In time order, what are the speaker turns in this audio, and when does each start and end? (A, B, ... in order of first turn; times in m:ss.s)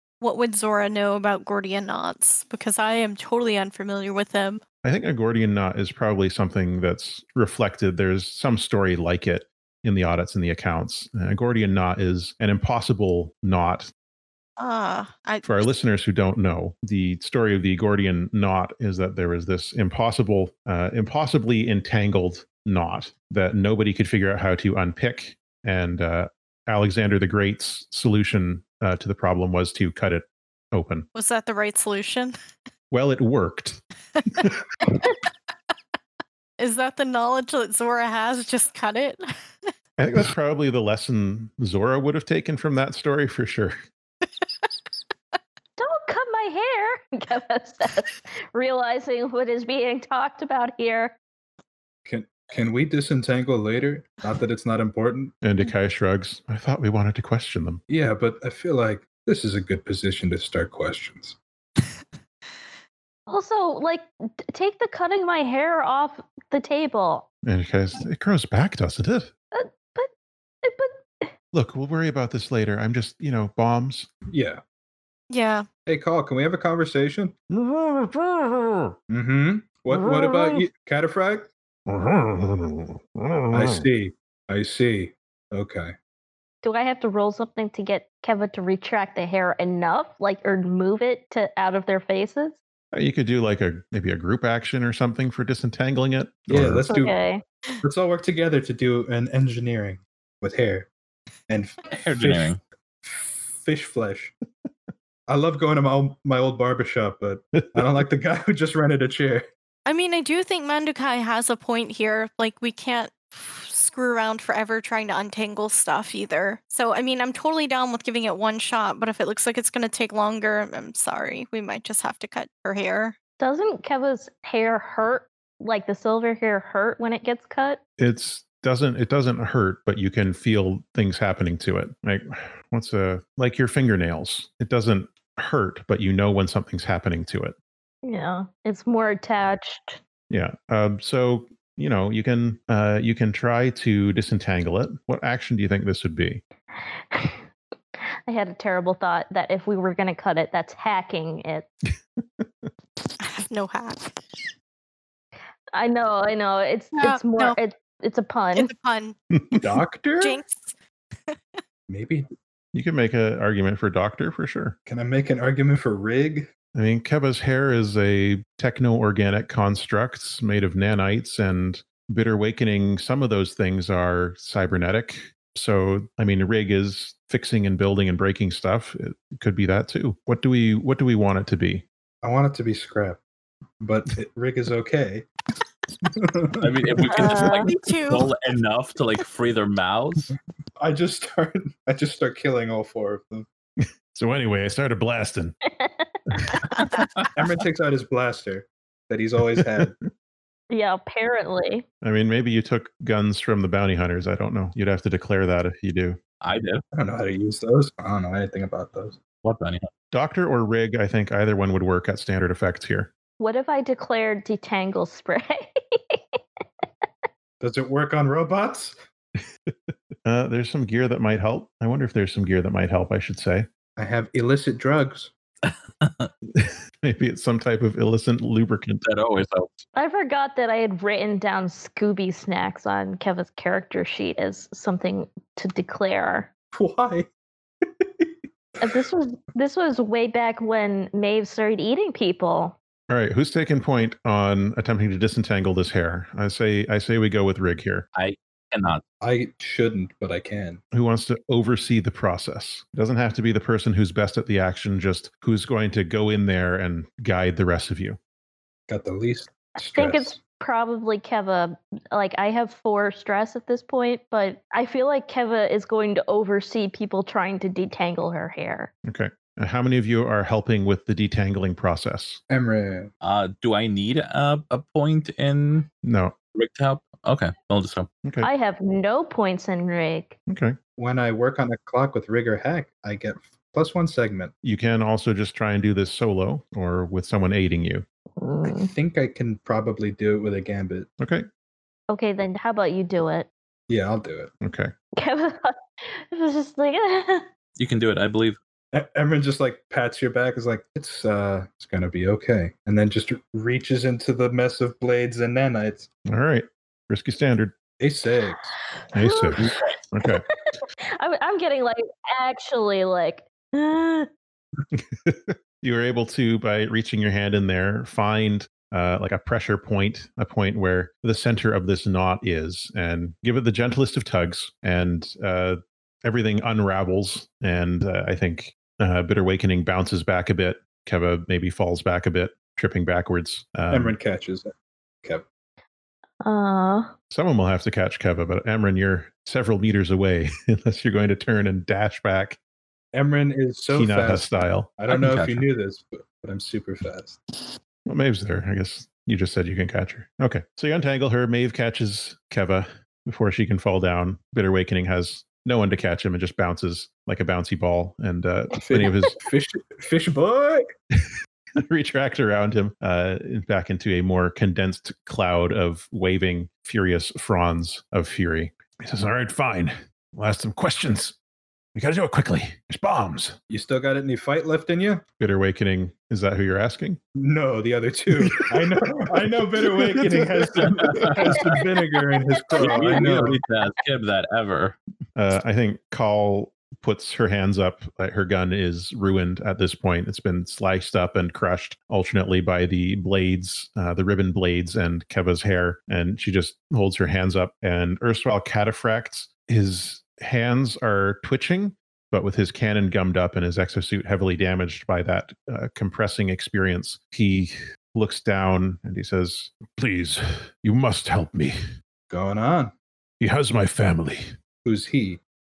0:00.2-0:04.6 A
0:04.8-0:13.9 B
0:14.6-0:15.6 A
0:15.4-0:31.1 B
0:31.1-0:32.3 A
0:32.9-0:33.8 B
0:34.2-0:35.1 A
0:34.3-0:34.6 B
0:36.6-0:39.3 A
0:40.0-0:43.8 B
0:45.8-0:51.2 C
0:52.1-0:55.3 D
0:55.4-0:57.8 B
0:57.9-1:01.4 D
1:03.3-1:07.3 C
1:07.4-1:09.3 B
1:09.5-1:10.1 C
1:10.6-1:11.3 C
1:11.5-1:14.1 B
1:14.3-1:14.6 D
1:15.3-1:15.6 A
1:15.9-1:17.4 D
1:17.5-1:19.0 B
1:19.1-1:21.5 D
1:19.9-1:20.6 B
1:21.9-1:23.9 B
1:23.5-1:26.0 D
1:26.6-1:32.6 C
1:32.9-1:36.9 B
1:36.5-1:37.2 D
1:36.9-1:37.4 C
1:37.8-1:40.9 D
1:41.5-1:44.3 D
1:41.9-1:42.6 E
1:45.3-1:49.5 D
1:49.9-2:03.2 A
2:03.4-2:07.8 C
2:08.0-2:17.6 B
2:18.0-2:20.0 C
2:20.3-2:26.4 B
2:27.1-2:27.4 C
2:28.3-2:31.7 C
2:32.2-2:32.7 B
2:33.2-2:34.4 A
2:35.7-2:38.7 C
2:37.0-2:37.6 A
2:38.6-2:39.2 A
2:39.6-2:40.4 D
2:40.2-2:40.7 A
2:41.9-2:42.3 D
2:42.7-2:44.8 B
2:44.9-2:46.5 D
2:46.7-3:01.8 B
3:02.2-3:03.2 D
3:03.8-3:05.3 D
3:06.0-3:06.8 D
3:06.6-3:10.3 E
3:07.1-3:07.7 C
3:07.2-3:08.3 A
3:10.8-3:13.5 D
3:13.8-3:15.6 B
3:15.6-3:16.6 C
3:16.7-3:17.1 A
3:17.4-3:20.0 D
3:19.6-3:19.9 B
3:20.7-3:21.8 C
3:22.0-3:26.2 B
3:26.4-3:26.8 E
3:26.9-3:29.2 D
3:29.4-3:29.9 E
3:30.1-3:33.1 B
3:33.4-3:36.2 C
3:37.6-3:39.0 D
3:39.7-3:43.7 B
3:44.0-3:45.3 D
3:45.7-3:46.3 E
3:46.5-3:49.0 B
3:49.0-3:49.8 E
3:49.9-3:56.5 C
3:56.7-3:57.3 D
3:57.8-3:58.3 D
3:58.8-4:02.8 C
4:03.1-4:08.1 B
4:08.1-4:09.0 E
4:09.2-4:10.8 D
4:10.9-4:18.2 B
4:18.9-4:20.4 D
4:19.8-4:28.9 C
4:29.0-4:32.4 B
4:32.5-4:33.1 D
4:33.2-4:35.9 E
4:36.0-4:36.4 B
4:36.6-4:38.1 E
4:38.2-4:38.5 B
4:38.4-4:40.4 C
4:40.5-4:40.8 B
4:41.0-4:44.5 D
4:44.6-4:48.0 B
4:48.4-4:48.9 C
4:48.6-4:51.1 D
4:51.2-4:51.5 B
4:52.1-4:53.5 C
4:53.9-4:54.5 D
4:54.6-4:54.9 B
4:55.2-4:57.4 C
4:57.8-4:58.6 E
4:58.9-5:06.1 D
5:06.3-5:07.7 B
5:08.0-5:08.7 D
5:09.1-5:10.4 B
5:09.1-5:14.3 C
5:14.9-5:34.1 B
5:33.9-5:34.7 D
5:36.4-5:37.1 C
5:37.3-5:42.6 B
5:43.1-5:47.5 D
5:43.9-5:44.9 B
5:45.1-5:45.6 E
5:48.1-5:59.4 B
5:58.8-6:00.9 D
6:01.2-6:11.4 B
6:12.0-6:13.6 B
6:13.7-6:15.2 D
6:15.4-6:17.2 B
6:17.4-6:23.6 D
6:18.4-6:19.0 B
6:19.8-6:21.4 B
6:20.9-6:21.6 E
6:22.8-6:25.0 E
6:22.8-6:23.3 C
6:25.4-6:51.8 B
6:52.3-6:52.9 D
6:53.4-6:54.5 B
6:54.8-6:55.4 D